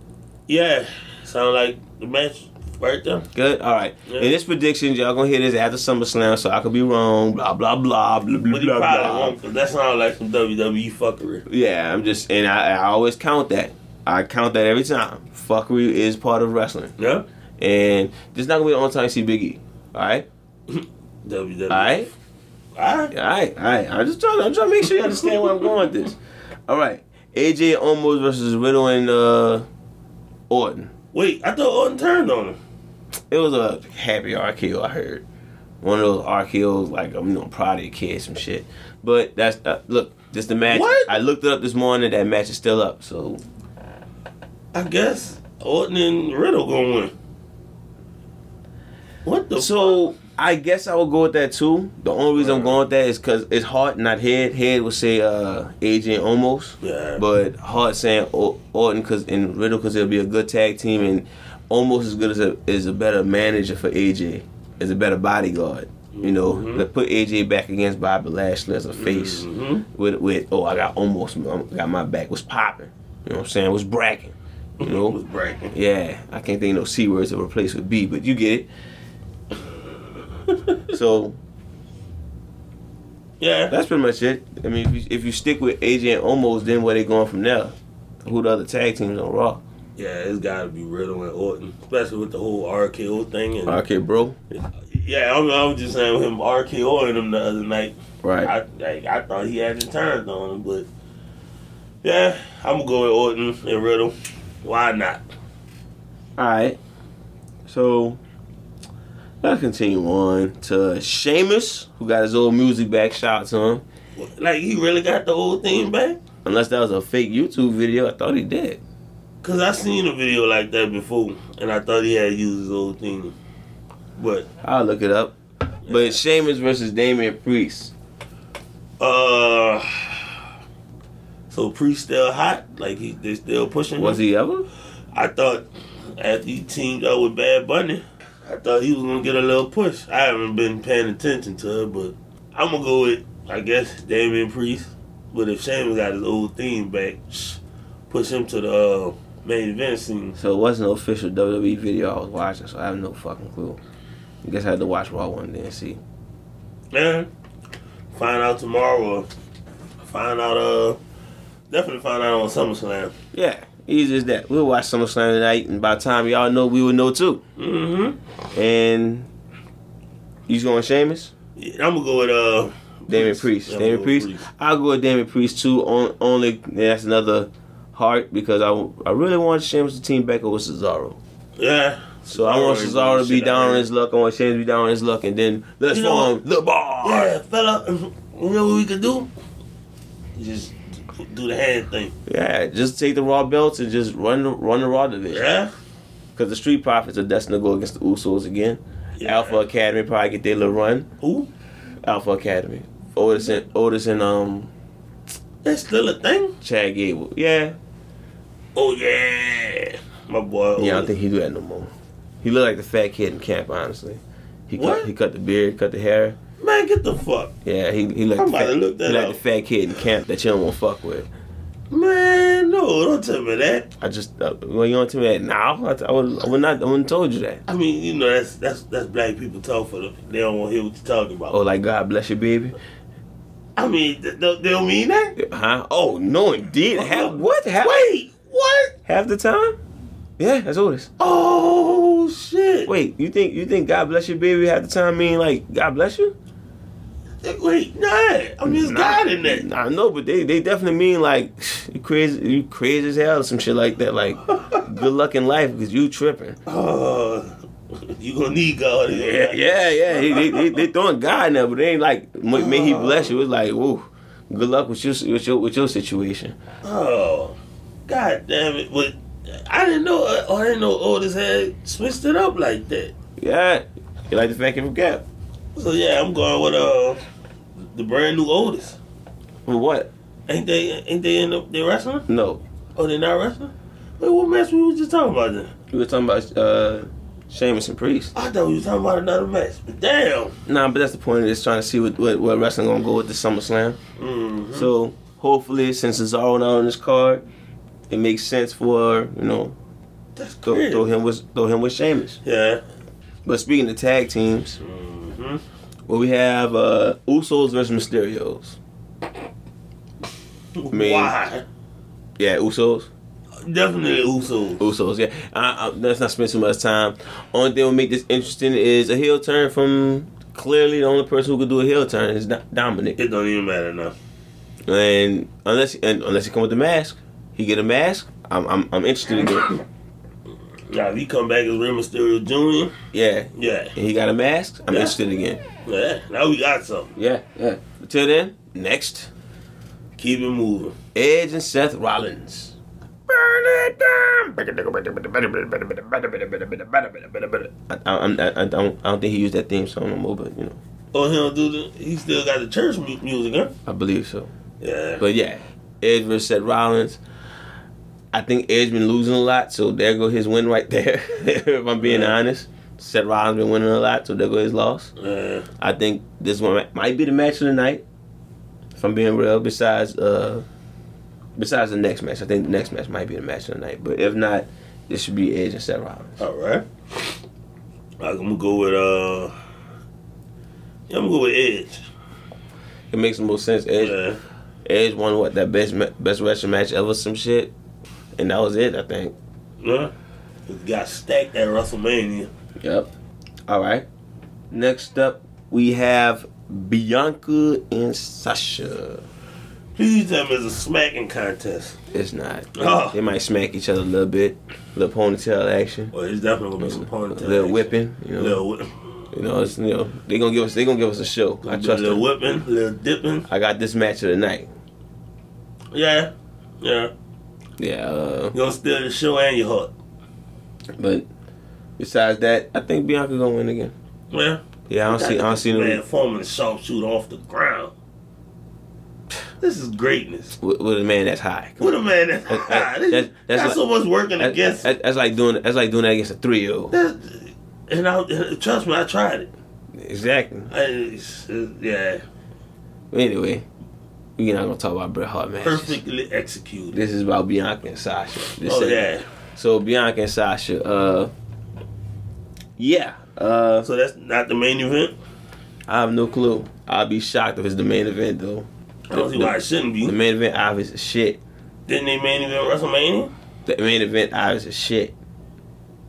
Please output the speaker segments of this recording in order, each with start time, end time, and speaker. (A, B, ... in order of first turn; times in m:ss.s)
0:00.5-0:03.3 A
0:03.3-0:09.4 B
0:04.1-0:04.3 A
0:08.5-0:11.5 A
0:11.5-0:16.9 B
0:17.0-0:17.2 A
0:17.6-0:20.3 B
0:20.7-0:22.1 A
0:21.7-0:22.1 B
0:22.8-0:23.1 A
0:23.1-0:29.7 B
0:25.0-0:25.6 A
0:30.5-0:30.9 B
0:31.1-0:32.6 A
0:33.3-0:35.2 B
0:35.8-0:43.4 B
0:40.7-0:41.2 A
0:44.7-0:47.1 A
0:49.2-0:50.0 A
0:49.6-1:15.2 B
0:52.4-0:52.8 A
0:56.8-0:57.2 A
1:06.1-1:06.9 A
1:09.0-1:09.9 A
1:14.8-1:15.7 A
1:15.7-1:18.7 B
1:20.5-1:20.8 A
1:20.9-1:21.4 B
1:23.4-1:23.7 A
1:23.7-1:29.6 B
1:30.0-1:33.8 A
1:33.7-1:34.4 B
1:34.5-1:40.9 A
1:38.2-1:38.5 B
1:42.0-1:45.2 A
1:46.4-1:46.8 B
1:47.7-1:48.2 B
1:49.4-1:53.8 B
1:54.2-1:56.2 A
1:56.4-1:58.8 B
1:59.4-2:03.3 A
2:04.2-2:04.5 A
2:04.6-2:05.4 B
2:05.9-2:06.2 A
2:05.9-2:07.9 B
2:09.0-2:10.4 A
2:11.5-2:14.2 A
2:14.0-2:14.7 B
2:15.1-2:30.4 A
2:30.4-2:33.8 B
2:34.4-2:36.0 B
2:36.9-2:37.3 A
2:38.1-2:39.3 A
2:40.0-2:41.0 A
2:41.7-2:43.2 A
2:43.3-2:47.4 B
2:47.6-2:48.2 A
2:48.5-2:49.3 B
2:50.5-2:51.3 B
2:51.6-2:54.5 A
2:53.1-3:01.2 B
3:01.6-3:03.9 A
3:02.3-3:07.3 B
3:05.9-3:06.4 A
3:07.0-3:09.3 A
3:10.4-3:12.2 A
3:12.3-3:15.5 B
3:15.3-3:15.7 A
3:16.4-3:21.1 B
3:19.2-3:19.6 A
3:21.2-3:21.5 A
3:22.0-3:24.7 B
3:25.6-3:26.6 A
3:26.6-3:27.8 B
3:28.8-3:31.1 A
3:30.8-3:31.9 B
3:32.4-3:36.4 B
3:34.8-3:35.1 A
3:36.6-3:37.5 A
3:37.6-3:41.3 B
3:38.4-3:39.4 A
3:41.9-3:43.9 A
3:44.0-3:47.6 B
3:47.7-3:51.6 A
3:51.5-3:52.8 B
3:53.8-3:55.4 A
3:55.4-3:58.1 B
3:56.9-3:59.0 A
3:59.1-3:59.8 B
4:00.4-4:01.1 B
4:01.2-4:02.9 A
4:02.9-4:06.3 B
4:07.4-4:09.6 A
4:08.6-4:16.6 B
4:14.5-4:14.8 A
4:16.7-4:20.8 A
4:19.1-4:26.6 B
4:22.5-4:23.3 A
4:26.8-4:27.6 A
4:28.1-4:33.1 A
4:33.4-4:35.2 B
4:35.8-4:37.2 A
4:37.8-4:39.0 A
4:39.7-4:40.1 B
4:40.5-4:42.3 A
4:42.3-4:42.6 B
4:43.0-4:45.7 A
4:45.9-4:48.3 B
4:48.3-4:50.6 A
4:50.7-4:54.0 B
4:54.2-4:54.9 A
4:54.7-4:57.4 B
4:58.1-4:59.8 B
5:00.4-5:01.1 A
5:00.6-5:02.4 B
5:02.4-5:02.8 A
5:03.4-5:04.8 B
5:04.8-5:05.6 A
5:06.1-5:08.8 B
5:10.8-5:11.6 A
5:10.9-5:11.3 B
5:12.4-5:13.1 B
5:13.6-5:14.8 A
5:14.8-5:23.2 B
5:23.2-5:24.2 A
5:24.9-5:29.8 B
5:30.9-5:32.9 A
5:33.1-5:35.6 B
5:33.6-5:34.0 A
5:34.9-5:35.2 A
5:35.8-5:37.1 A
5:37.2-5:39.3 B
5:40.2-5:41.0 A
5:41.2-5:42.8 B
5:43.3-5:50.8 B
5:51.1-5:53.7 A
5:53.9-5:54.5 B
5:54.8-5:55.2 A
5:55.2-5:57.2 B
5:58.3-6:05.1 B
6:02.0-6:02.4 A
6:05.2-6:05.7 A
6:05.8-6:08.0 B
6:09.0-6:10.6 B
6:11.6-6:16.4 B
6:16.4-6:16.9 A
6:18.2-6:19.5 A
6:21.1-6:22.0 A
6:23.1-6:24.2 B
6:24.0-6:24.4 A
6:24.8-6:27.7 B
6:28.4-6:29.4 B
6:29.8-6:30.1 A
6:30.7-6:32.5 A
6:32.8-6:33.1 B
6:33.7-6:34.1 B
6:34.7-6:39.2 B
6:40.0-6:42.0 A
6:42.1-6:46.1 B
6:42.8-6:43.2 A
6:46.1-6:49.0 A
6:46.8-6:48.6 B
6:49.3-6:52.2 B
6:51.6-6:53.5 A
6:53.5-6:54.7 B
6:55.9-6:57.1 A
6:57.8-6:58.6 B
6:58.5-6:59.9 A
7:01.0-7:01.3 B
7:02.0-7:03.9 B
7:04.3-7:07.9 A
7:04.9-7:06.0 B
7:09.6-7:10.6 A
7:10.6-7:13.8 B
7:11.8-7:14.9 A
7:14.4-7:16.9 B
7:16.9-7:19.5 A
7:20.0-7:20.7 B
7:20.7-7:22.2 A
7:23.1-7:23.6 B
7:24.4-7:26.0 B
7:25.6-7:27.0 A
7:26.9-7:31.3 B
7:28.6-7:29.2 A
7:32.8-7:33.9 B
7:33.8-7:35.2 A
7:35.9-7:41.4 B
7:39.1-7:40.2 A
7:41.9-7:43.3 A
7:43.7-7:45.1 B